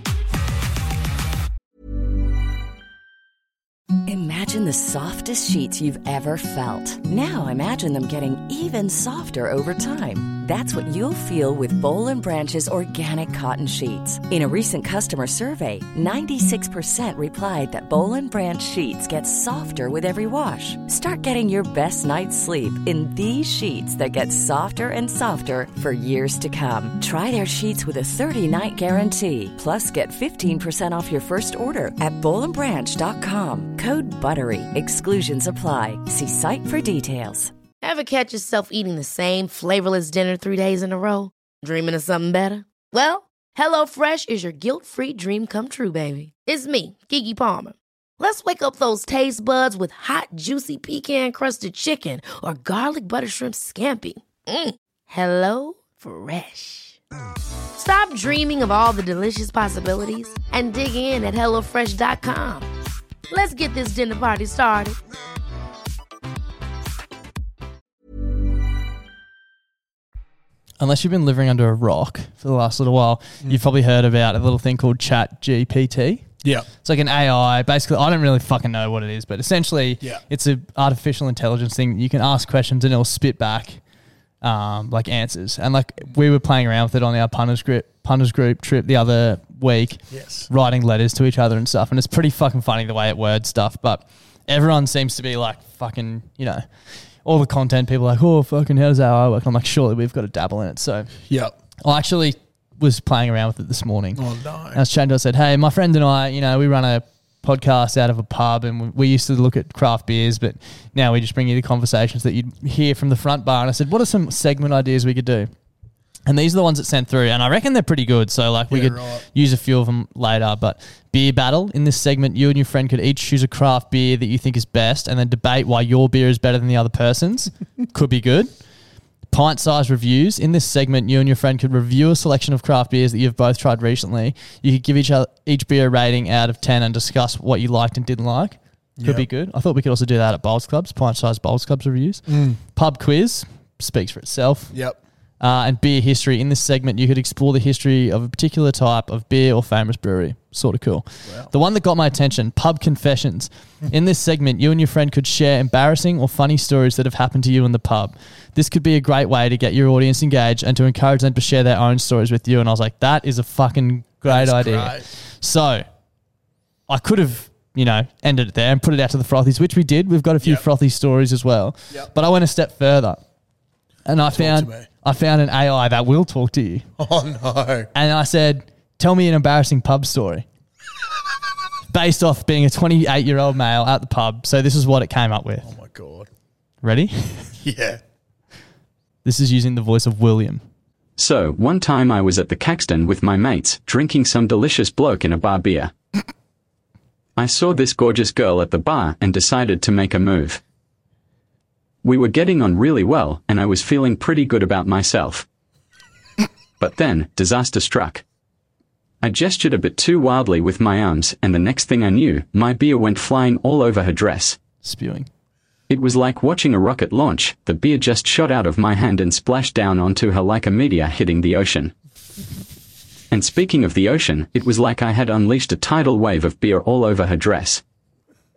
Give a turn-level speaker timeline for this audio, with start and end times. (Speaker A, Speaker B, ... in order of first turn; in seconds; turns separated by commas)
Speaker A: 4.1-37.5, Speaker B: 37.8-57.0, Speaker B: 57.8-62.7, Speaker B: 63.3-65.0, Speaker C: 70.8-76.2, Speaker D: 76.4-76.7, Speaker C: 76.8-83.8, Speaker C: 84.4-96.7, Speaker D: 90.1-90.5, Speaker C: 97.2-101.1, Speaker D: 101.3-101.5, Speaker C: 101.8-115.5, Speaker D: 104.2-104.8, Speaker C: 116.3-128.5, Speaker D: 118.7-119.2, Speaker C: 129.3-144.7, Speaker D: 139.0-139.3, Speaker D: 142.3-142.6, Speaker D: 144.7-145.0, Speaker C: 145.4-165.9, Speaker D: 164.2-165.1, Speaker C: 166.9-173.2, Speaker C: 174.1-176.9, Speaker D: 174.3-174.9, Speaker D: 177.0-177.9, Speaker C: 177.9-180.5, Speaker C: 181.9-185.7, Speaker D: 185.6-186.3, Speaker C: 186.8-187.5, Speaker D: 187.6-188.0, Speaker C: 189.2-190.6, Speaker E: 191.2-195.9, Speaker E: 197.4-200.6, Speaker E: 202.0-205.5, Speaker E: 206.8-208.2, Speaker E: 209.2-214.6, Speaker C: 214.8-215.3, Speaker E: 215.9-221.9, Speaker E: 223.3-227.8